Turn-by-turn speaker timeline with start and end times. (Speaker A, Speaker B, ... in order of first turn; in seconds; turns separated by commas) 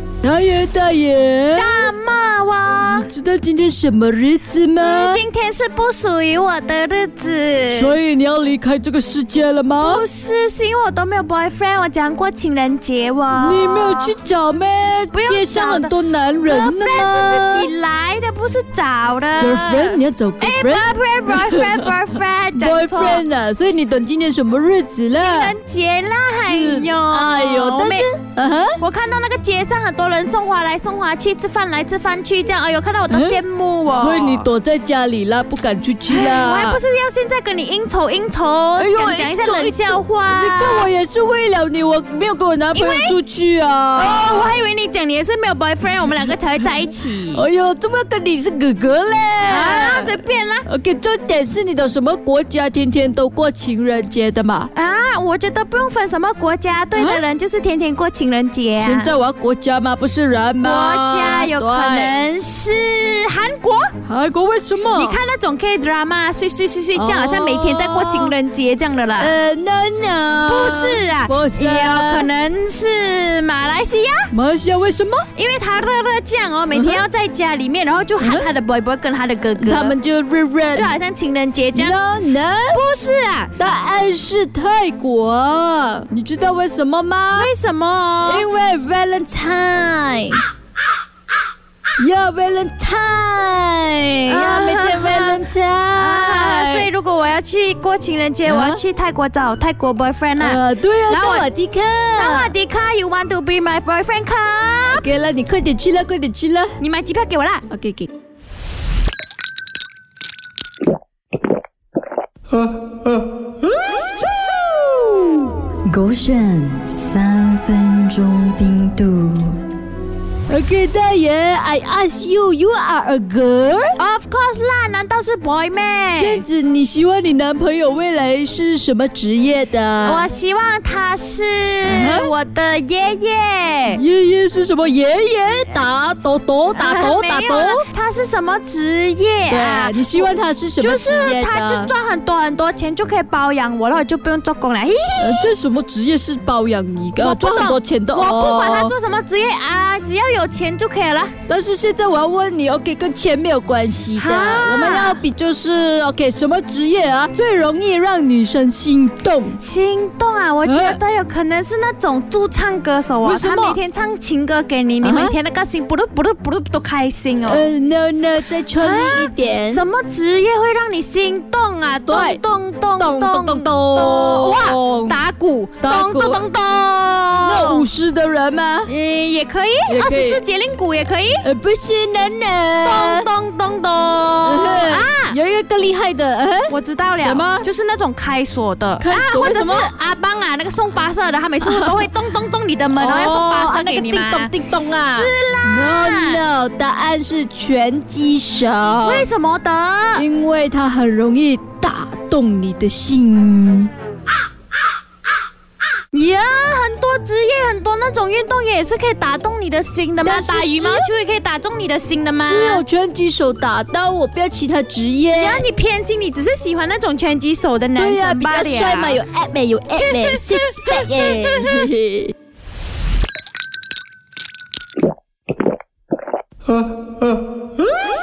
Speaker A: 0.2-1.9, Speaker B: 1.6-3.1, Speaker A: 2.8-5.2, Speaker B: 4.8-8.0, Speaker A: 7.7-10.0, Speaker B: 9.8-14.1, Speaker A: 13.3-17.7, Speaker B: 15.1-15.9, Speaker B: 16.4-23.2, Speaker A: 19.4-21.9, Speaker A: 22.6-25.5, Speaker B: 25.2-28.1, Speaker A: 26.4-28.8, Speaker B: 28.8-34.5, Speaker A: 33.1-36.8, Speaker B: 36.1-40.9, Speaker A: 38.8-44.5, Speaker B: 42.7-43.2, Speaker B: 44.0-47.5, Speaker A: 47.3-54.7, Speaker B: 49.5-50.7, Speaker B: 54.7-59.1, Speaker A: 57.0-57.2, Speaker A: 58.8-62.2, Speaker B: 60.6-63.9, Speaker A: 64.0-65.2, Speaker B: 64.9-69.3, Speaker A: 67.0-68.3, Speaker A: 69.2-72.3, Speaker B: 70.5-74.3, Speaker A: 74.3-75.3, Speaker B: 75.3-80.0, Speaker A: 76.7-77.0, Speaker A: 78.2-78.5, Speaker A: 79.6-80.9, Speaker B: 80.8-82.0, Speaker A: 81.8-82.8, Speaker B: 82.7-83.5, Speaker A: 83.6-87.5, Speaker B: 87.3-88.5, Speaker A: 88.2-90.4, Speaker A: 92.0-96.9, Speaker B: 94.3-95.4, Speaker B: 96.0-101.5, Speaker A: 98.5-98.8, Speaker A: 100.4-102.5, Speaker B: 102.2-105.1, Speaker A: 104.9-106.8, Speaker B: 106.8-107.7, Speaker A: 107.7-108.1, Speaker C: 115.9-119.6, Speaker A: 120.5-124.0, Speaker B: 124.0-126.5, Speaker A: 126.2-130.2, Speaker B: 130.0-134.0, Speaker A: 131.8-132.3, Speaker A: 133.9-137.8, Speaker B: 136.8-145.5, Speaker A: 139.5-141.9, Speaker A: 145.2-148.9, Speaker B: 147.2-151.3, Speaker A: 151.5-159.6, Speaker B: 154.2-155.2, Speaker B: 159.6-167.7, Speaker A: 160.6-161.0, Speaker A: 163.2-163.8, Speaker A: 165.0-165.3, Speaker A: 167.5-169.8, Speaker B: 168.8-177.9, Speaker A: 172.1-172.4, Speaker A: 173.0-175.2, Speaker A: 175.8-176.4, Speaker A: 177.4-178.9, Speaker B: 178.9-181.4, Speaker A: 179.9-180.4, Speaker A: 181.4-183.2, Speaker B: 182.8-185.4, Speaker A: 184.4-187.7, Speaker B: 186.7-194.5, Speaker A: 189.0-189.9, Speaker A: 191.6-192.1, Speaker A: 192.9-199.3, Speaker B: 195.1-196.4, Speaker B: 199.0-200.2, Speaker A: 200.2-203.9, Speaker B: 206.1-212.8, Speaker A: 210.2-211.1, Speaker A: 212.4-215.6, Speaker B: 215.3-219.2, Speaker A: 218.0-222.3, Speaker B: 220.1-221.9